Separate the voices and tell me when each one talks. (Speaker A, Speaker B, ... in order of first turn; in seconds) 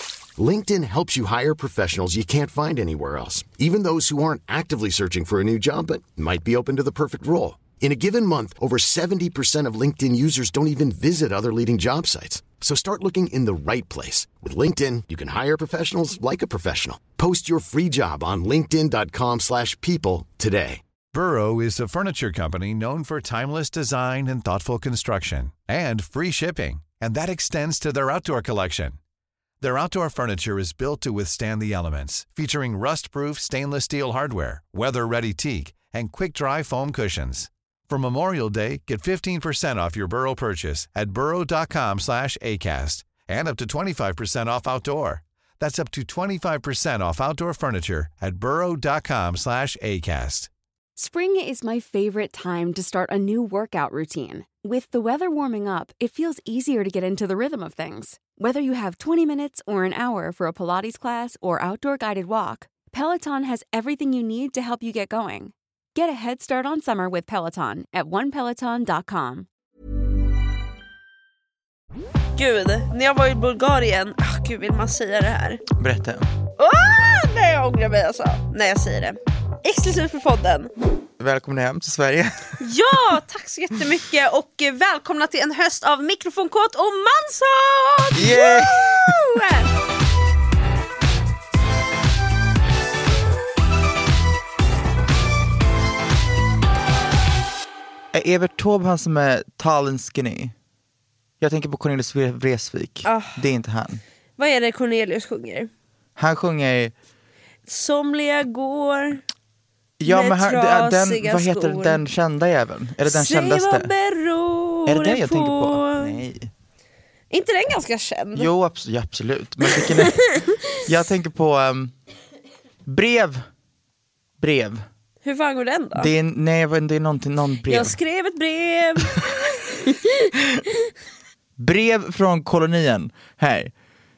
Speaker A: 0.4-20.8
Speaker B: 21.1-29.0, 29.6-50.5
Speaker C: 51.0-69.5
Speaker D: 72.4-75.6, 76.6-80.7, 82.6-89.7, 103.0-103.5, 104.4-105.7, 107.7-109.2, 110.1-112.0, 113.1-116.2, 117.3-118.5, 119.8-120.8, 125.2-126.1, 127.7-130.3
Speaker E: 75.8-76.3, 81.2-82.6, 88.2-89.2, 98.1-100.5, 101.4-104.0, 106.2-106.9, 110.0-113.9, 114.9-116.5, 118.3-120.2, 120.8-121.9, 122.9-123.4, 124.4-124.8, 126.0-128.0, 131.6-133.7